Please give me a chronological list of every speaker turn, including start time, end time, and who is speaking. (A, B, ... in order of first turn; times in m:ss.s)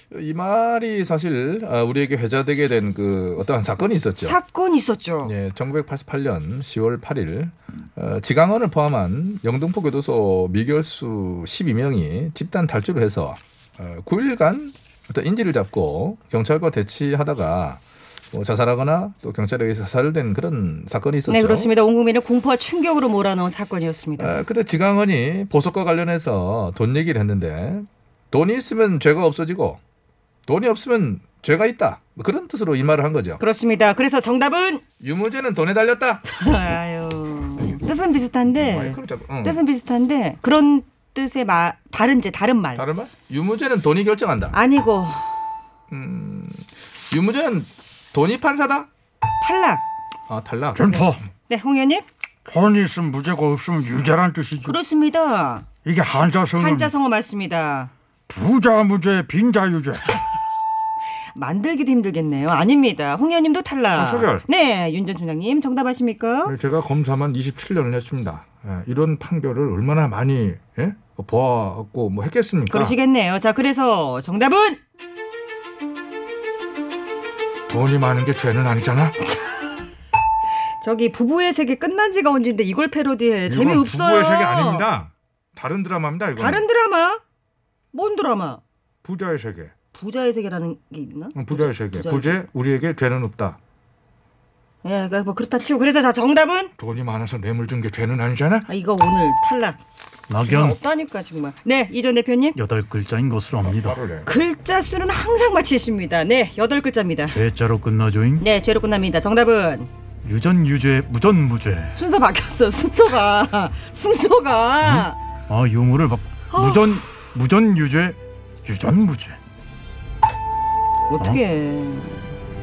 0:00.3-0:04.4 A
0:03.0-0:04.2 B
0:04.2-0:05.3 C
0:05.2-0:06.5 B
0:05.5-0:07.4 A
0:07.4-0:08.0 B
0:08.0-0:13.3 A
0:13.3-0:17.8 B
0:14.1-0:14.6 A
0:15.2-0:17.7 A
0:18.4-0:21.6 A
0:18.5-0:21.6 B
0:21.3-0:24.4 C
0:24.3-0:25.9 B
0:25.3-0:27.7 A
0:27.4-0:28.4 B
0:28.3-0:29.6 A
0:29.5-0:29.8 B
0:30.5-0:32.3 B
0:30.6-0:33.3 A
0:33.4-0:34.8 C
0:35.0-0:36.2 B
0:35.3-0:36.1 A
0:36.3-0:42.8 C
0:38.6-0:39.6 B
0:42.8-0:44.5 A
0:42.8-0:43.3 B
0:44.5-0:45.4 C
0:45.9-0:46.6 B
0:46.1-0:46.4 A
0:47.1-0:48.9 A
0:49.4-0:49.8 C
0:50.3-0:50.7 A
0:50.7-0:51.2 D
0:51.0-0:52.0 C
0:52.4-0:54.8 D
0:54.6-0:55.7 C
0:55.8-0:56.9 D
0:56.6-0:57.9 C
0:58.3-1:00.2 D
1:01.3-1:06.5 C
1:04.0-1:04.4 B
1:06.4-1:13.0 B
1:12.7-1:14.8 C
1:17.7-1:19.2 B
1:19.3-1:19.9 C
1:20.8-1:24.9 C
1:23.5-1:26.6 B
1:26.4-1:27.2 C
1:27.9-1:28.6 C
1:29.0-1:29.7 B
1:29.9-1:32.4 C
1:31.4-1:33.6 B
1:34.8-1:36.7 C
1:36.8-1:38.7 B
1:38.7-1:39.8 C
1:40.3-1:40.8 E
1:40.4-1:42.6 C
1:42.6-1:44.0 E
1:43.6-1:44.3 B
1:44.2-1:47.4 C
1:47.3-1:48.4 E
1:48.4-1:49.9 C
1:50.2-1:52.0 E
1:51.9-1:55.2 C
1:54.8-1:59.4 E
1:56.5-1:57.3 C
2:01.1-2:02.4 C